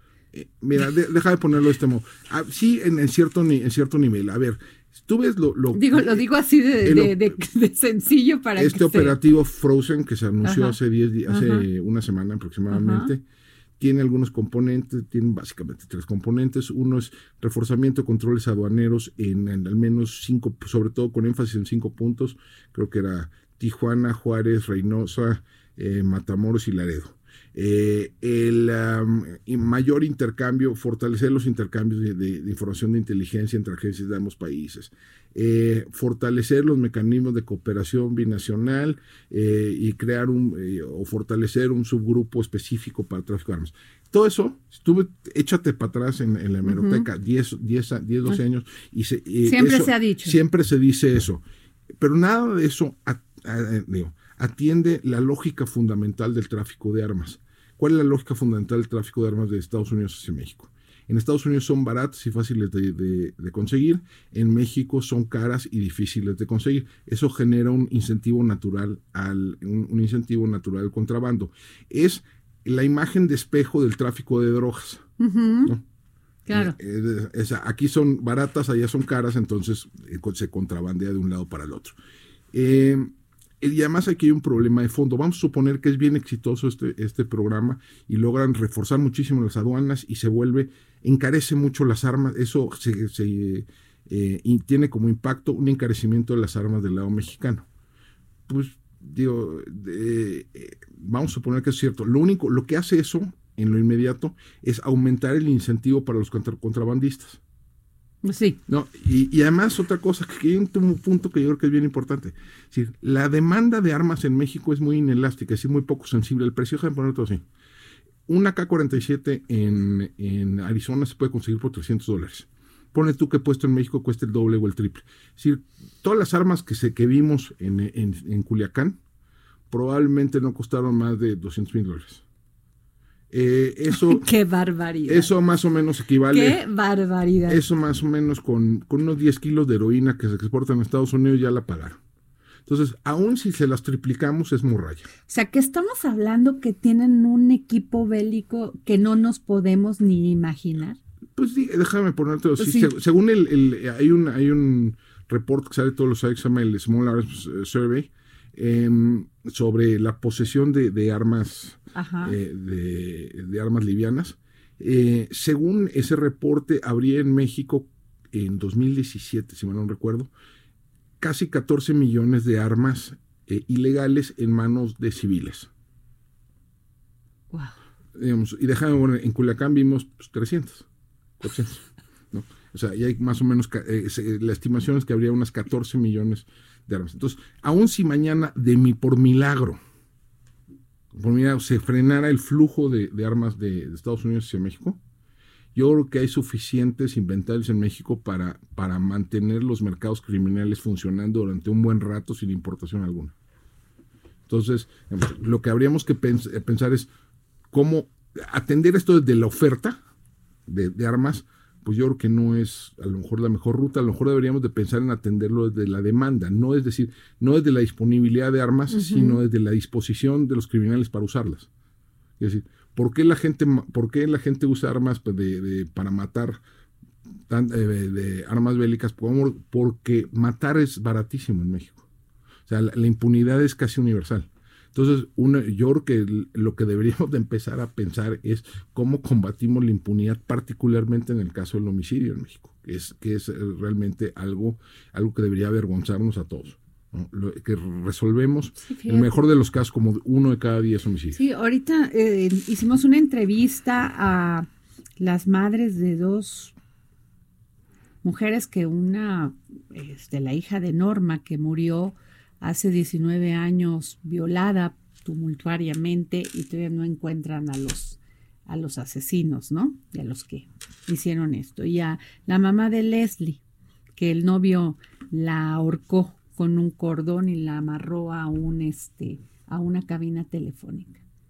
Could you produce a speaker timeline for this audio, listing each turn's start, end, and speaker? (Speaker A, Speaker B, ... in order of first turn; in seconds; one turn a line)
Speaker A: 0.3-6.2
Speaker B: 5.7-9.2
Speaker A: 6.8-7.4
Speaker A: 8.6-13.2
Speaker B: 10.4-11.7
Speaker B: 12.7-13.1
Speaker A: 13.8-51.4
Speaker B: 46.7-47.1
Speaker B: 49.4-50.4
Speaker A: 52.0-75.1
Speaker B: 75.2-75.8
Speaker B: 76.5-76.8
Speaker A: 76.5-82.0
Speaker A: 82.5-97.7
Speaker A: 98.5-107.4
Speaker B: 108.2-108.6
Speaker A: 108.7-117.4
Speaker A: 118.3-129.0
Speaker A: 129.7-132.2
Speaker A: 133.3-134.3
Speaker B: 133.9-135.3
Speaker A: 135.1-136.6
Speaker B: 136.3-137.6
Speaker A: 137.5-142.0
Speaker A: 142.7-145.1
Speaker B: 145.3-151.0
Speaker A: 151.3-170.3
Speaker B: 152.6-152.9
Speaker B: 161.9-162.4
Speaker A: 171.2-175.7
Speaker A: 178.2-180.9
Speaker A: 181.4-189.8
Speaker A: 191.1-195.0
Speaker A: 195.7-203.3
Speaker A: 204.5-207.1
Speaker A: 207.7-210.0
Speaker A: 210.7-221.7
Speaker B: 218.9-219.4
Speaker A: 222.4-226.6
Speaker A: 227.5-232.1
Speaker A: 232.7-251.4
Speaker B: 248.8-249.3
Speaker B: 251.3-254.7
Speaker B: 255.2-256.7
Speaker B: 258.2-273.6
Speaker B: 274.2-281.2